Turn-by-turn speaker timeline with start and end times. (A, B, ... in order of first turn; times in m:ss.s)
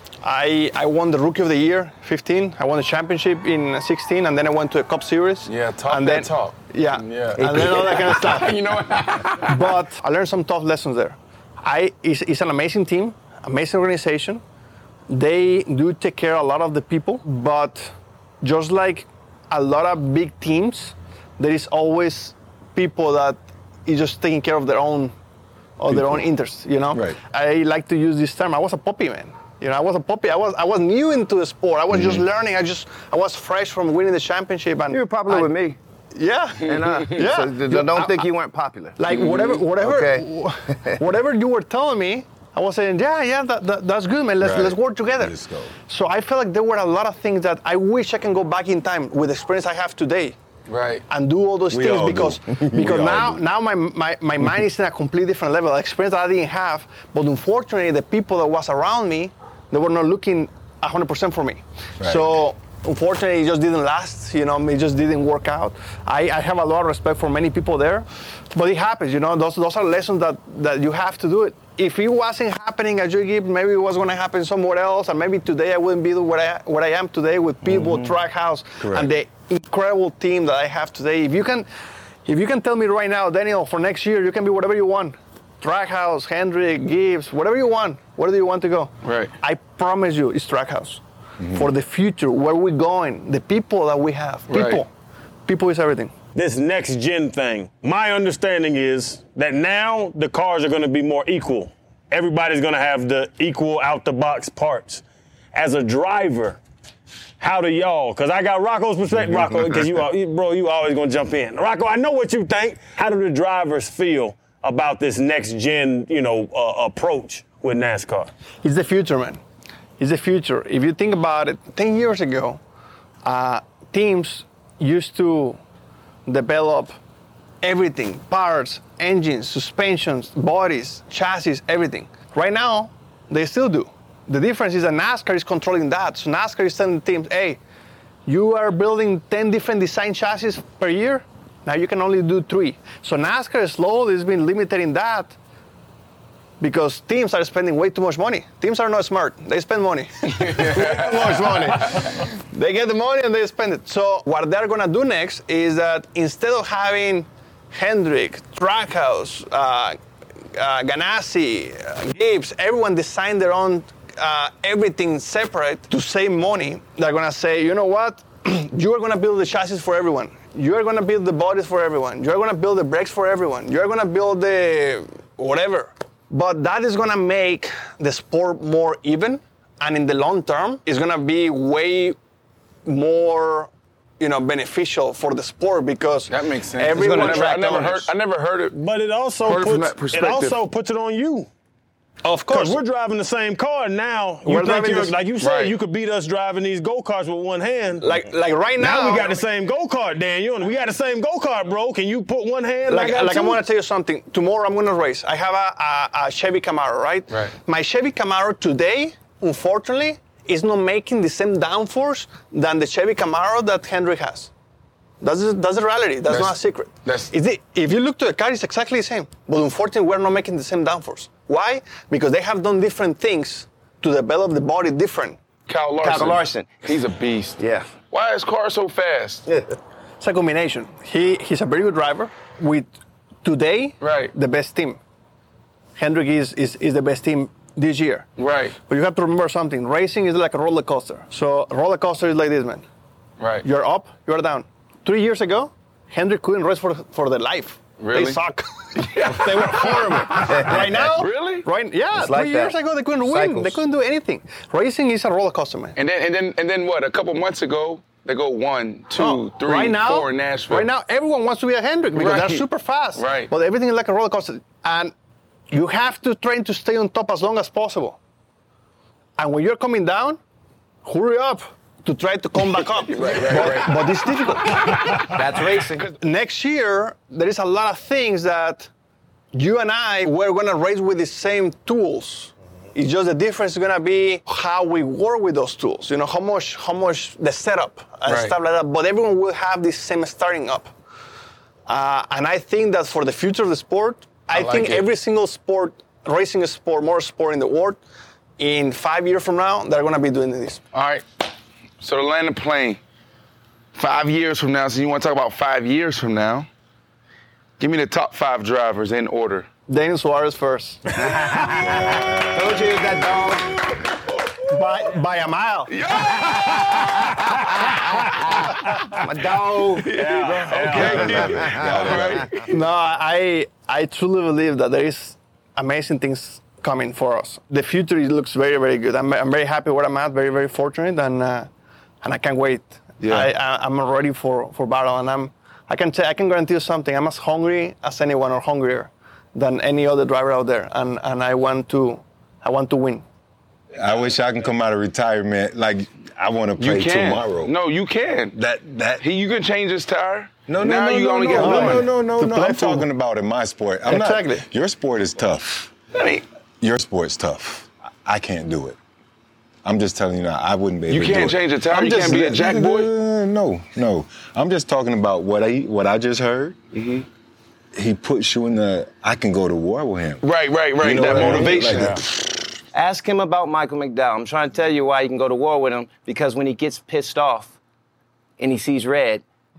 0:00.2-0:08.6 A
0:05.5-0:09.8 B
0:07.4-0:08.2 C
0:09.4-0:14.4 A
0:15.1-0:25.1 A
0:25.8-0:35.5 A
0:25.9-0:26.2 D
0:26.9-0:27.2 D
0:31.9-0:32.2 D
0:34.9-0:35.8 C
0:36.2-0:38.3 A
0:36.7-0:41.0 C
0:39.0-0:45.3 A
0:44.4-0:45.7 D
0:45.9-0:50.4 A
0:50.7-0:51.0 B
0:51.1-1:21.7 A
0:51.7-0:53.4 D
1:02.0-1:02.4 D
1:17.6-1:18.1 C
1:18.8-1:19.1 D
1:22.3-1:34.9 A
1:29.0-1:29.3 B
1:34.5-1:34.8 B
1:35.5-1:36.1 A
1:36.3-1:46.6 E
1:47.4-1:58.3 E
1:58.6-1:59.4 A
2:00.0-2:02.6 A
2:03.2-2:05.6 A
2:06.3-2:07.0 A
2:07.6-2:17.6 A
2:18.3-2:25.4 A
2:26.6-2:40.0 A
2:30.4-2:32.2 B
2:40.6-3:02.2 A
3:02.8-3:07.9 A
3:06.3-3:08.8 B
3:06.9-3:08.1 C
3:08.7-3:11.5 E
3:09.4-3:10.6 B
3:12.2-3:12.8 A
3:12.5-3:18.0 E
3:14.5-3:15.2 A
3:15.4-3:15.7 B
3:18.0-3:19.3 A
3:18.8-3:23.6 E
3:22.9-3:34.5 A
3:35.2-3:45.4 A
3:36.3-3:37.3 B
3:45.7-3:47.6 B
3:46.0-3:46.8 C
3:47.6-3:47.9 C
3:48.1-3:49.4 B
3:50.2-3:52.9 A
3:53.4-3:55.0 A
3:54.0-3:54.3 B
3:56.0-3:58.3 A
3:58.4-3:58.8 B
3:58.9-4:02.8 A
4:03.4-4:03.6 B
4:03.6-4:16.0 A
4:08.0-4:08.4 B
4:09.0-4:11.7 B
4:12.1-4:13.8 C
4:16.0-4:20.9 B
4:19.2-4:25.1 A
4:22.1-4:22.6 B
4:23.2-4:23.5 B
4:25.7-4:28.2 A
4:29.4-4:30.4 A
4:31.0-4:35.2 A
4:32.6-4:36.1 B
4:35.3-4:36.0 C
4:36.1-4:38.9 A
4:39.5-4:50.9 A
4:48.3-4:48.6 B
4:51.9-4:58.0 A
4:54.5-4:55.1 B
4:58.6-5:00.8 A
5:00.9-5:01.2 B
5:02.0-5:03.0 B
5:04.0-5:06.7 B
5:07.8-5:09.7 B
5:09.9-5:11.0 A
5:11.3-5:11.7 E
5:11.6-5:13.5 D
5:12.5-5:13.8 C
5:13.8-5:15.0 B
5:14.7-5:15.9 A
5:15.9-5:17.4 B
5:17.3-5:18.3 E
5:19.1-5:20.1 C
5:20.0-5:22.8 B
5:20.1-5:21.4 E
5:20.8-5:22.5 D
5:22.7-5:31.7 A
5:32.2-5:43.2 A
5:33.2-5:33.5 B
5:44.0-5:47.7 D
5:46.8-5:48.6 B
5:48.5-5:49.2 D
5:49.2-5:52.1 B
5:50.7-5:55.9 D
5:51.5-5:53.1 A
5:54.1-5:54.6 A
5:56.2-5:56.4 B
5:56.8-5:59.0 D
5:59.8-6:06.8 D
6:01.1-6:03.1 B
6:01.9-6:02.5 A
6:06.9-6:07.3 B
6:07.9-6:10.4 D
6:10.4-6:12.2 B
6:11.0-6:12.3 D
6:12.9-6:17.8 C
6:18.6-6:19.4 C